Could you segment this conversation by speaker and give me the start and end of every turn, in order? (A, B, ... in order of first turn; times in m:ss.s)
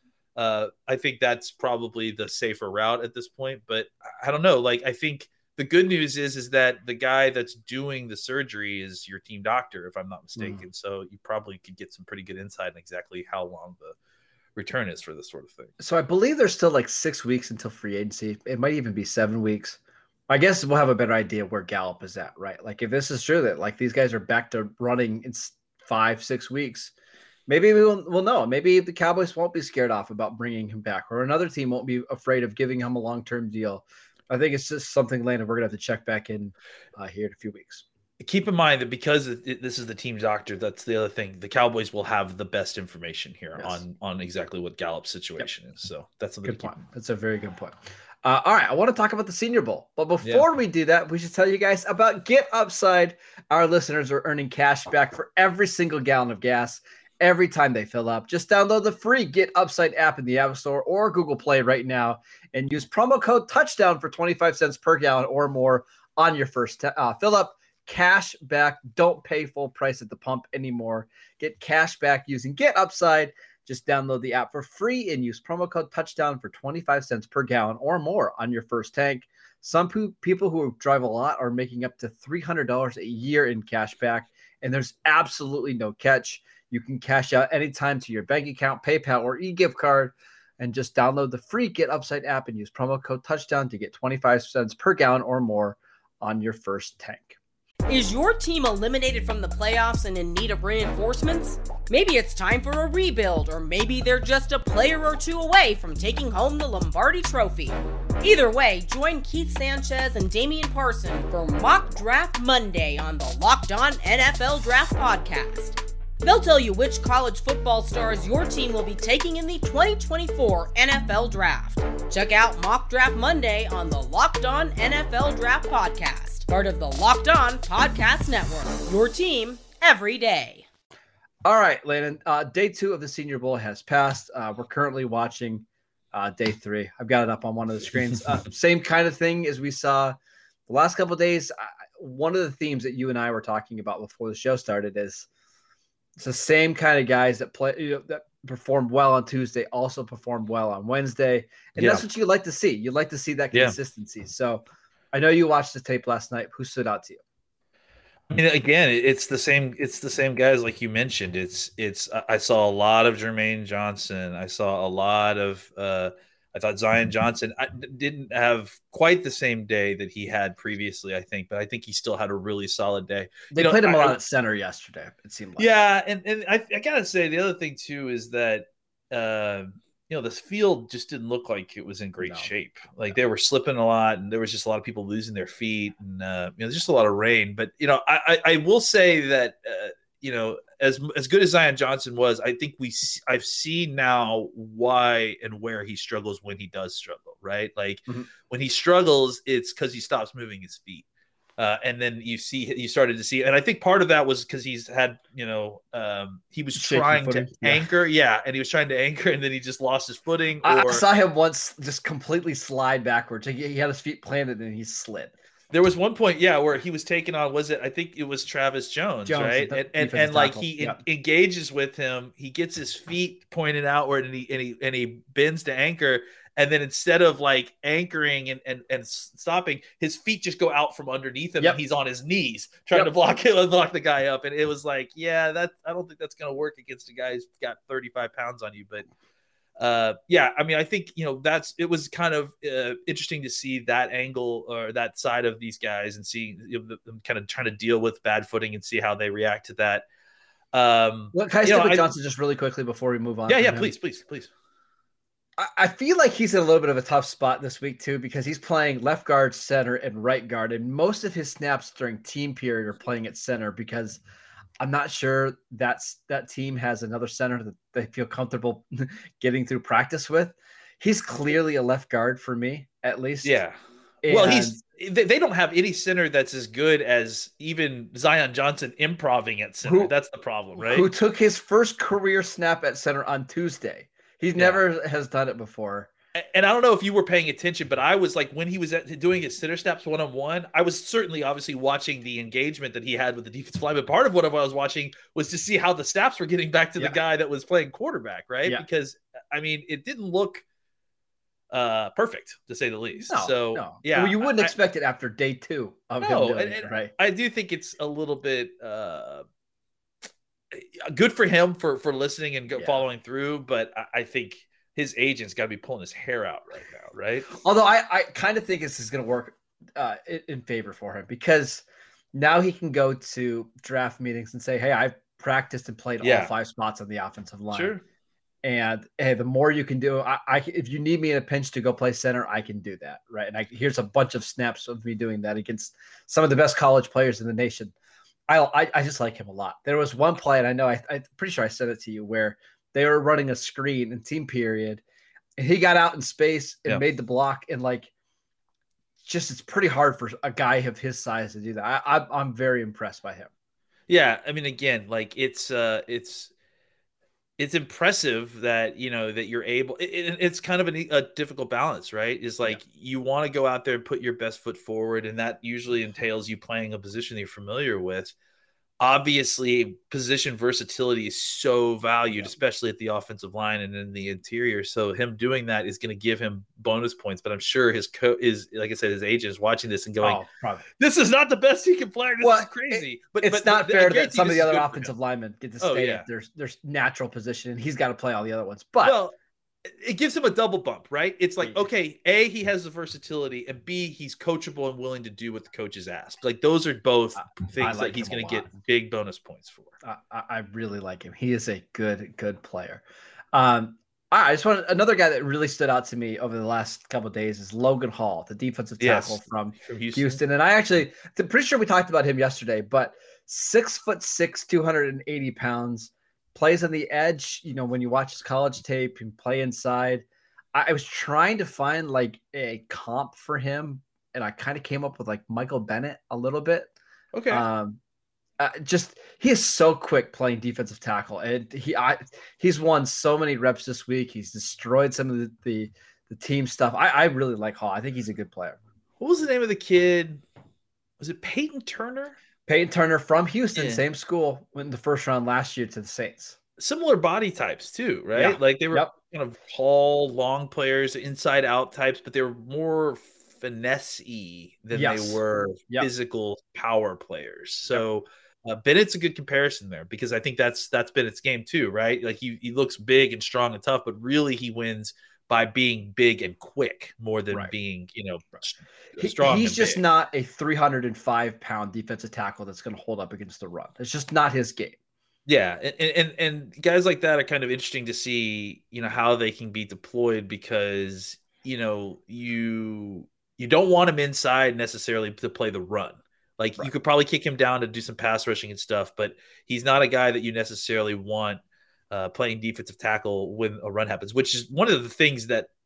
0:00.4-0:14.0 A
0:14.6-0:15.7 A
0:15.8-0:26.9 B
0:27.5-0:37.8 B
0:38.2-0:46.8 A
0:46.4-1:37.4 B
1:37.9-2:10.6 C
2:11.4-2:20.2 B
2:20.7-2:25.3 B
2:26.2-2:37.2 B
2:31.8-2:32.0 A
2:38.3-2:54.2 A
2:53.5-2:55.7 B
2:55.6-3:21.0 A
3:02.2-3:02.5 B
3:21.6-3:31.0 A
3:26.7-3:27.9 B
3:30.6-3:35.3 B
3:35.7-3:59.0 A
3:39.2-3:41.0 B
3:59.8-4:10.0 A
4:10.7-4:12.1 A
4:11.3-4:13.9 B
4:13.5-4:14.5 A
4:15.6-4:24.2 B
4:24.8-4:33.6 B
4:33.4-4:41.1 A
4:34.2-4:34.8 B
4:39.8-4:40.1 B
4:40.8-4:46.1 B
4:44.5-4:44.8 A
4:46.4-5:00.6 A
5:01.7-5:04.7 A
5:03.3-5:07.1 B
5:06.2-5:09.4 A
5:10.7-5:17.5 A
5:17.5-5:27.9 B
5:26.2-5:26.5 A
5:27.7-5:28.0 A
5:28.6-5:37.9 B
5:38.5-5:45.0 B
5:45.6-5:48.1 B
5:49.2-5:53.5 B
5:54.1-5:56.5 A
5:57.6-6:08.3 A
6:09.0-6:20.4 A
6:20.2-6:20.8 B
6:21.0-6:25.1 A
6:22.4-6:29.2 B
6:25.8-6:26.3 A
6:29.0-6:29.3 A
6:29.8-6:39.9 A
6:37.6-6:38.7 B
6:40.0-7:06.9 B
6:49.0-6:50.4 A
7:07.3-7:07.6 A
7:07.5-7:08.0 B
7:08.6-7:18.8 B
7:19.2-7:20.4 A
7:21.2-7:22.4 A
7:22.7-7:26.6 B
7:23.7-7:24.0 A
7:26.8-7:50.0 A
7:28.3-7:29.1 B
7:34.9-7:36.1 B
7:49.2-7:55.0 B
7:55.4-8:15.7 A